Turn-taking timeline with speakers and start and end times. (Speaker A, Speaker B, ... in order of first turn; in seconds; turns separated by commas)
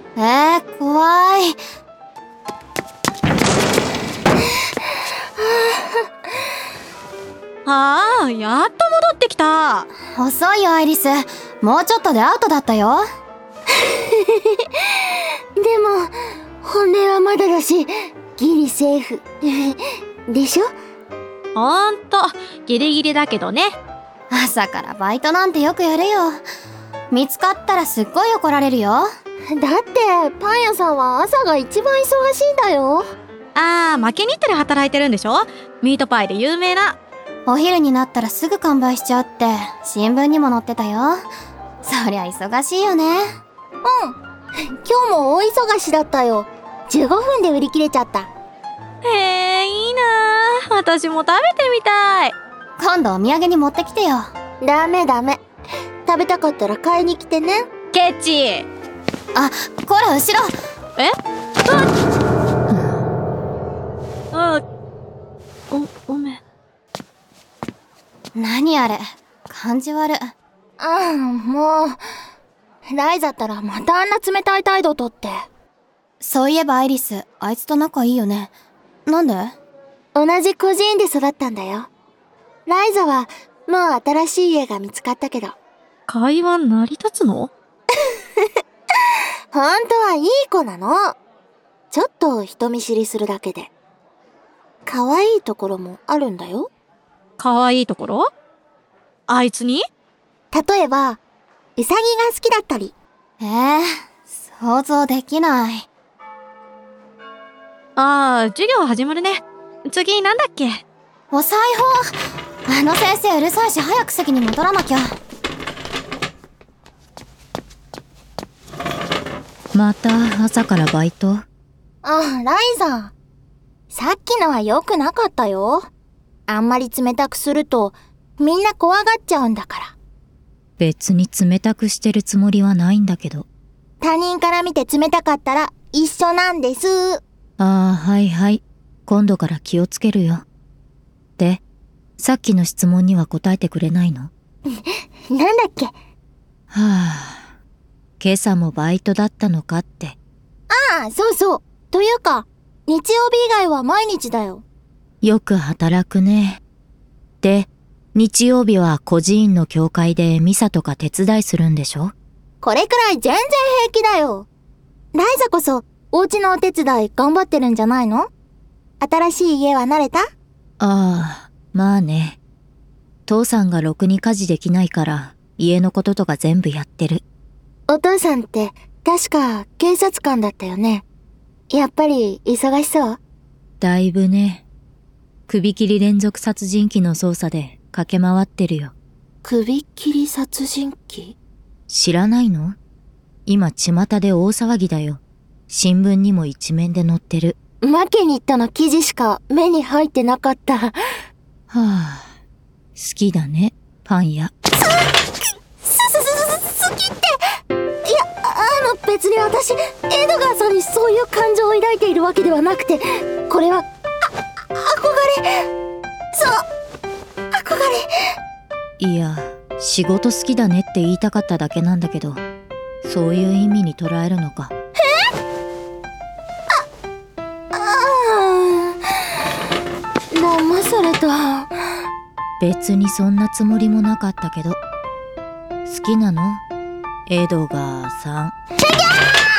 Speaker A: 0.2-1.6, Speaker B: 5.4-6.0, Speaker C: 7.7-9.9, Speaker A: 10.2-13.1, Speaker B: 13.8-14.6, Speaker B: 15.6-16.1, Speaker B: 16.6-20.7, Speaker C: 21.6-23.8, Speaker A: 24.3-26.4, Speaker A: 27.1-29.1, Speaker B: 29.6-33.0, Speaker C: 33.5-37.0, Speaker A: 37.5-41.3, Speaker A: 41.8-43.4, Speaker B: 43.8-44.2, Speaker B: 44.8-48.3, Speaker C: 49.0-52.4, Speaker A: 52.8-54.3, Speaker B: 54.6-55.4, Speaker B: 56.1-57.7, Speaker C: 57.9-58.7, Speaker A: 59.4-60.5, Speaker C: 61.0-61.9, Speaker D: 62.7-63.0, Speaker C: 64.3-64.6, Speaker C: 65.7-66.4, Speaker A: 68.3-70.3, Speaker B: 70.8-72.0, Speaker B: 72.9-75.5, Speaker A: 76.2-78.5, Speaker A: 79.1-79.6, Speaker B: 80.2-81.9, Speaker B: 82.7-85.6, Speaker C: 86.1-87.5, Speaker B: 89.5-91.2, Speaker B: 91.9-93.7, Speaker B: 94.9-96.7, Speaker C: 97.4-98.3, Speaker C: 99.3-99.8, Speaker B: 100.5-101.2, Speaker B: 101.8-103.0, Speaker A: 103.4-105.9, Speaker C: 108.0-110.8, Speaker A: 111.3-115.2, Speaker D: 119.7-121.5, Speaker B: 122.0-123.1, Speaker B: 123.9-125.9, Speaker B: 126.5-130.0, Speaker D: 130.8-133.5, Speaker B: 134.0-137.2, Speaker D: 137.6-140.5, Speaker D: 142.2-144.3, Speaker B: 144.7-145.9, Speaker D: 146.7-147.6, Speaker D: 148.2-150.2, Speaker B: 150.7-154.6, Speaker D: 155.2-156.6, Speaker D: 157.4-162.2, Speaker B: 162.6-164.5, Speaker B: 165.1-168.3, Speaker B: 169.0-170.3, Speaker D: 170.8-172.4, Speaker D: 173.3-177.2, Speaker B: 177.9-181.1, Speaker B: 181.7-183.2, Speaker D: 183.8-184.7, Speaker D: 185.5-188.9, Speaker B: 189.4-191.4, Speaker D: 191.9-192.8, Speaker D: 193.5-197.6, Speaker B: 197.8-201.0, Speaker D: 201.7-202.3, Speaker D: 203.0-204.5, Speaker B: 205.8-207.3, Speaker B: 208.1-213.9, Speaker B: 214.8-215.6, Speaker B: 216.3-216.7, Speaker B: 217.6-218.0, Speaker D: 219.0-222.4, Speaker D: 223.0-224.7, Speaker B: 227.7-229.0, Speaker B: 230.3-231.7, Speaker D: 232.6-234.8, Speaker D: 235.9-236.6, Speaker D: 237.3-238.6